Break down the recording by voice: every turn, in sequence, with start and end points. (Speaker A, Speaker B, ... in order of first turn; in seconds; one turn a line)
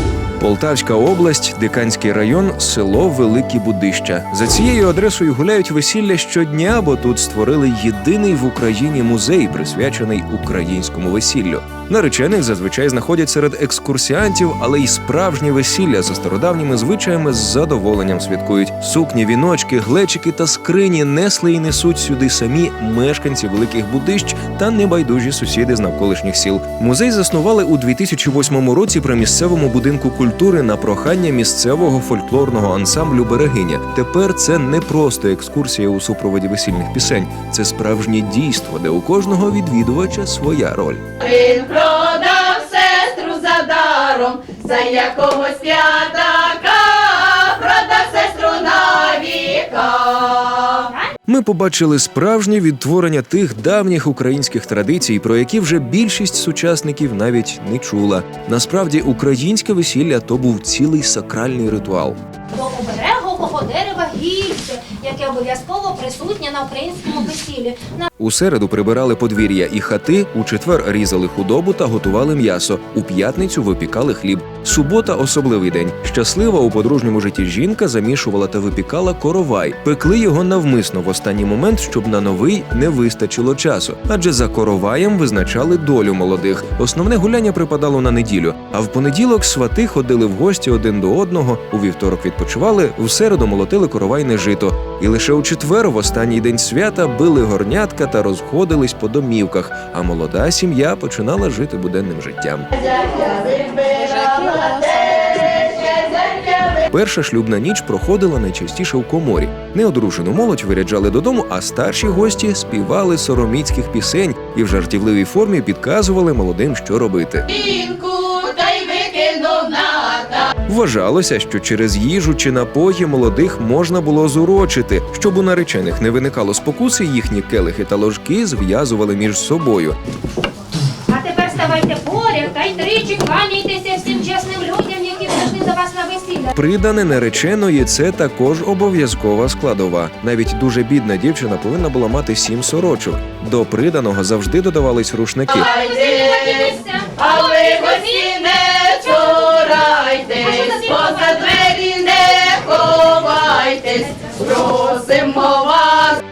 Speaker A: 0.4-41.1
Speaker B: 41.2-50.9
Speaker C: 50.9-51.1
Speaker A: 51.3-62.2
Speaker C: 62.5-68.1
Speaker A: 68.2-102.7
Speaker B: 102.8-106.8
Speaker C: 104.1-105.3
Speaker A: 106.9-117.5
Speaker B: 117.5-120.5
Speaker A: 120.7-130.0
Speaker C: 131.1-136.5
Speaker A: 136.5-145.7
Speaker B: 145.5-156.2
Speaker C: 145.8-148.4
Speaker C: 149.0-149.7
Speaker C: 150.4-151.8